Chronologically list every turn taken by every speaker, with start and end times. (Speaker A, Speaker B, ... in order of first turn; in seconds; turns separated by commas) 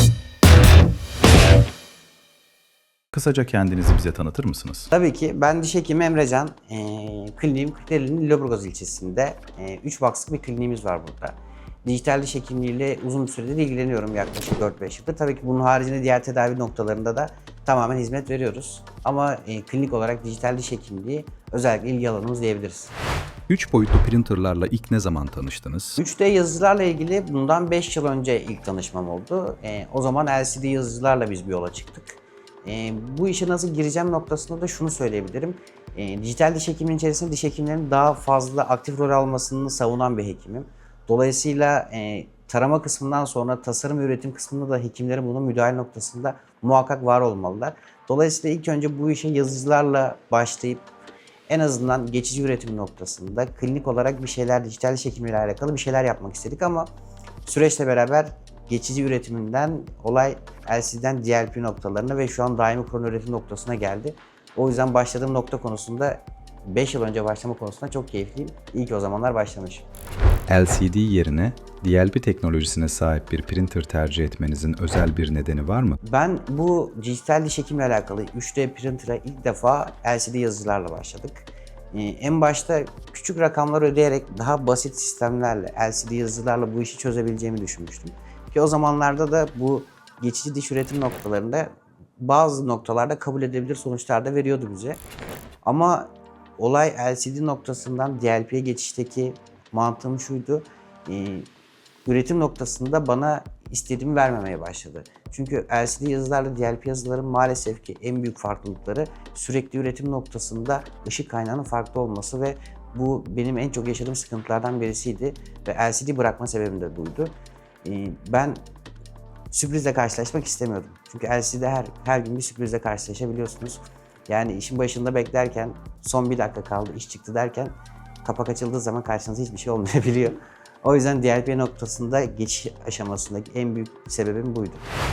Speaker A: 3.1-4.9, Speaker B: 4.9-22.9, Speaker A: 23.5-26.0, Speaker B: 26.0-50.8, Speaker B: 51.5-56.9, Speaker B: 57.4-69.9, Speaker A: 70.5-76.0, Speaker B: 76.0-95.0, Speaker B: 95.6-101.5, Speaker B: 102.0-117.3, Speaker B: 117.8-118.6, Speaker B: 119.5-134.8